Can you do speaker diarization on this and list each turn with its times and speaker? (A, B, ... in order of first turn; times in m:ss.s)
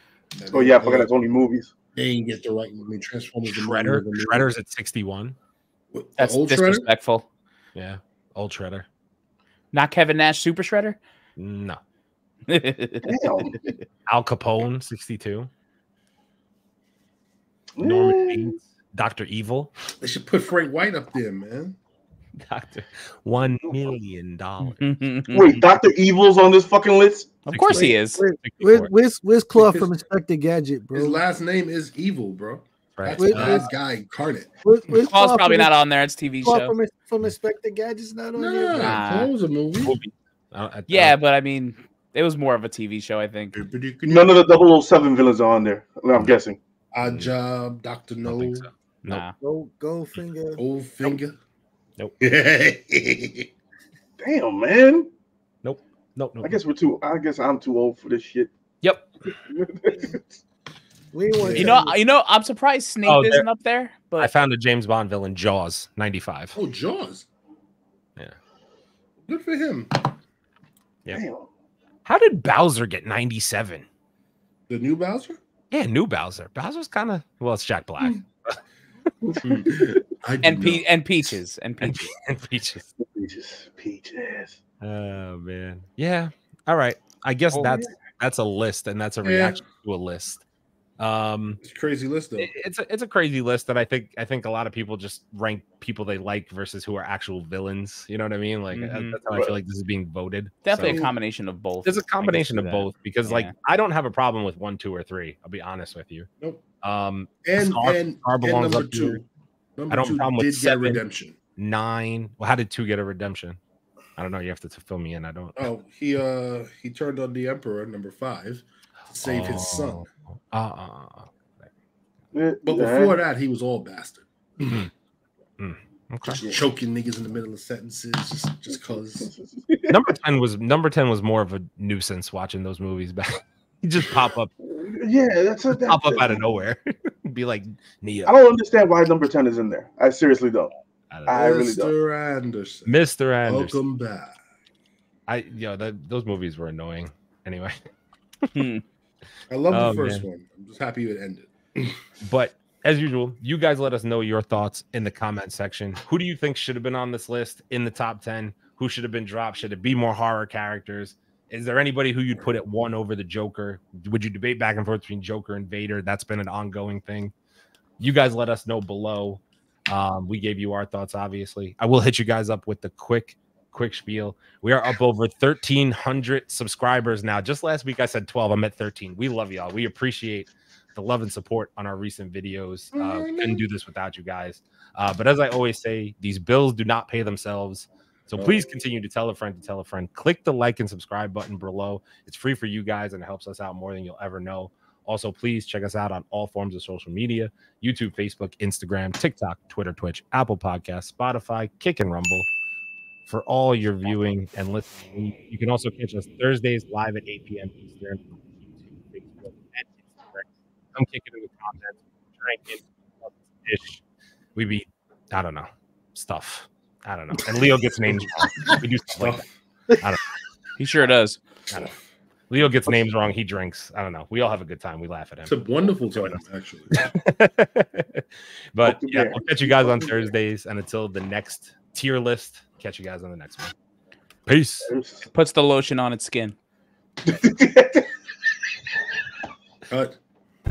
0:00.3-0:01.1 A
0:00.5-0:01.7 B
0:01.9-0:04.5 A
0:03.5-0:05.4 C
0:05.9-0:06.8 A
0:06.2-0:07.2 D
0:07.7-0:08.8 C
0:09.7-0:11.0 D
0:11.4-0:11.8 C
0:12.5-0:13.6 D
0:13.0-0:13.6 B
0:14.1-0:15.5 C
0:17.8-0:18.5 B
0:17.8-0:19.7 C
0:20.0-0:21.8 A
0:22.4-0:24.8 C
0:24.8-0:25.6 D
0:25.3-0:27.4 B
0:27.4-0:28.2 D
0:27.5-0:28.9 C
0:27.7-0:31.2 E
0:29.5-0:29.9 A
0:30.9-0:34.5 A
0:33.0-0:33.7 C
0:33.2-0:33.7 E
0:34.6-0:35.7 E
0:35.1-0:36.7 D
0:36.4-0:39.0 E
0:38.4-0:39.9 A
0:38.7-0:39.3 D
0:39.8-0:41.2 C
0:40.9-0:43.6 D
0:43.5-0:44.3 A
0:44.0-0:46.6 B
0:46.9-0:48.7 A
0:47.0-0:47.3 C
0:48.2-0:49.2 C
0:49.1-0:49.3 D
0:49.4-0:50.6 E
0:50.6-0:51.4 A
0:52.2-0:53.5 A
0:54.2-0:55.1 B
0:55.6-0:56.5 C
0:56.4-0:58.5 B
0:58.8-0:59.1 C
0:59.3-1:00.2 B
1:01.1-1:02.0 E
1:01.4-1:01.7 A
1:01.5-1:04.3 D
1:03.0-1:03.4 C
1:04.2-1:06.6 C
1:06.5-1:07.2 A
1:09.2-1:10.1 A
1:11.1-1:11.5 B
1:12.0-1:13.8 C
1:14.7-1:15.4 A
1:15.7-1:18.6 C
1:19.2-1:19.8 B
1:19.4-1:20.8 A
1:20.4-1:22.1 D
1:21.8-1:22.9 C
1:23.0-1:24.6 B
1:24.8-1:30.4 C
1:27.5-1:27.9 B
1:29.2-1:29.6 A
1:31.0-1:31.6 C
1:31.6-1:32.5 A
1:32.4-1:41.0 C
1:38.7-1:39.2 D
1:40.6-1:43.5 D
1:40.8-1:41.1 A
1:41.8-1:46.3 C
1:46.8-1:49.2 C
1:47.4-1:49.2 A
1:49.8-1:51.3 A
1:49.9-1:51.0 C
1:51.6-1:53.6 C
1:54.2-1:55.7 C
1:55.6-2:00.1 A
1:59.2-2:01.3 C
2:02.3-2:03.2 B
2:02.6-2:04.9 A
2:05.6-2:06.4 C
2:06.3-2:09.3 A
2:09.2-2:10.0 B
2:09.9-2:14.5 C
2:14.6-2:16.4 B
2:15.8-2:18.4 C
2:18.2-2:20.7 B
2:21.1-2:21.4 C
2:21.3-2:21.9 B
2:21.3-2:24.4 A
2:22.8-2:23.8 C
2:25.3-2:27.8 C
2:28.5-2:28.8 D
2:29.5-2:32.0 A
2:29.7-2:30.2 C
2:32.2-2:47.3 C
2:48.0-3:22.5 C
3:02.9-3:03.6 A
3:08.3-3:08.6 A
3:23.3-3:34.0 C
3:34.6-3:39.4 C
3:39.1-3:39.5 A
3:40.8-3:41.4 D
3:42.5-3:45.6 C
3:45.4-3:47.1 A
3:46.1-3:53.7 C
3:48.8-3:50.3 B
3:54.4-3:54.9 C
3:54.9-3:55.3 B
3:55.3-3:56.5 D
3:57.2-3:58.0 B
3:59.9-4:00.2 A